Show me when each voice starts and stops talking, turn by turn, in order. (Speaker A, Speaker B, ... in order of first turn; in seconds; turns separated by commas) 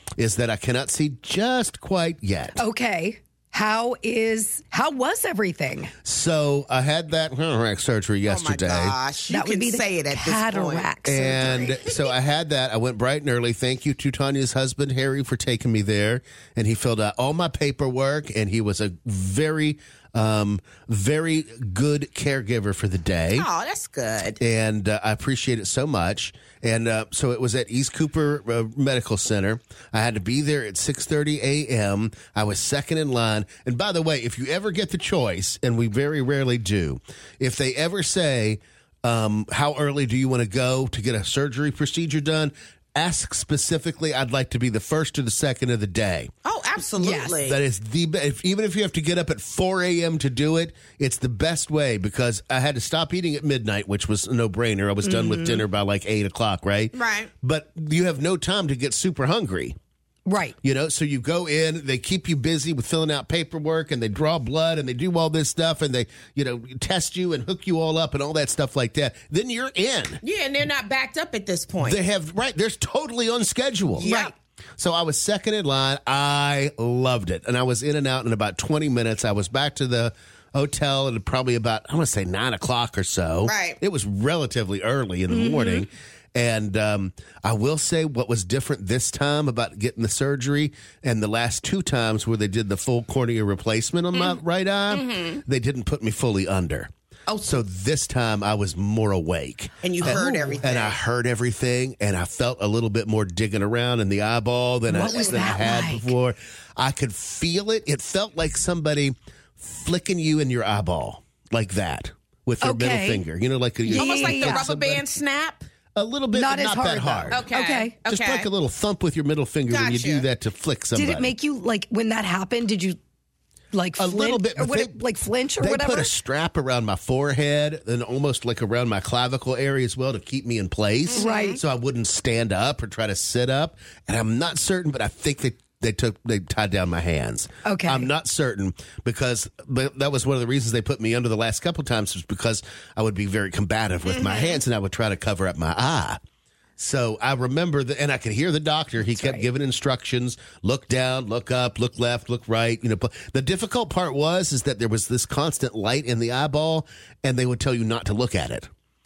Speaker A: 0.2-2.6, Speaker B: 2.6-5.9, Speaker A: 6.0-9.0, Speaker C: 8.3-10.9, Speaker B: 9.3-11.8, Speaker A: 11.1-23.5, Speaker C: 23.4-24.4, Speaker A: 24.4-46.3, Speaker C: 46.5-47.6, Speaker B: 47.0-47.4, Speaker A: 47.4-59.8, Speaker B: 55.0-55.6, Speaker C: 56.9-57.3, Speaker B: 60.3-60.6, Speaker A: 60.6-70.2, Speaker C: 70.2-72.0, Speaker A: 71.8-74.1, Speaker C: 74.0-74.3, Speaker B: 74.0-74.3, Speaker A: 74.8-96.9, Speaker C: 83.4-83.8, Speaker B: 85.3-85.8, Speaker C: 94.1-94.4, Speaker C: 94.9-95.4, Speaker C: 97.3-97.6, Speaker A: 97.4-115.1, Speaker C: 99.8-101.0, Speaker B: 100.0-100.6, Speaker B: 104.9-106.1, Speaker C: 105.1-105.4, Speaker B: 112.6-113.2, Speaker B: 113.8-114.7, Speaker C: 114.0-115.7, Speaker A: 116.0-117.4, Speaker B: 116.3-117.9, Speaker C: 117.3-118.5, Speaker A: 118.1-121.3, Speaker C: 119.7-120.3, Speaker B: 120.9-123.0, Speaker B: 123.7-126.1, Speaker A: 124.0-125.0, Speaker A: 125.6-146.2, Speaker C: 131.1-131.6, Speaker B: 131.1-131.6, Speaker B: 137.7-138.1, Speaker C: 144.1-144.6, Speaker A: 146.8-158.7, Speaker B: 149.0-149.5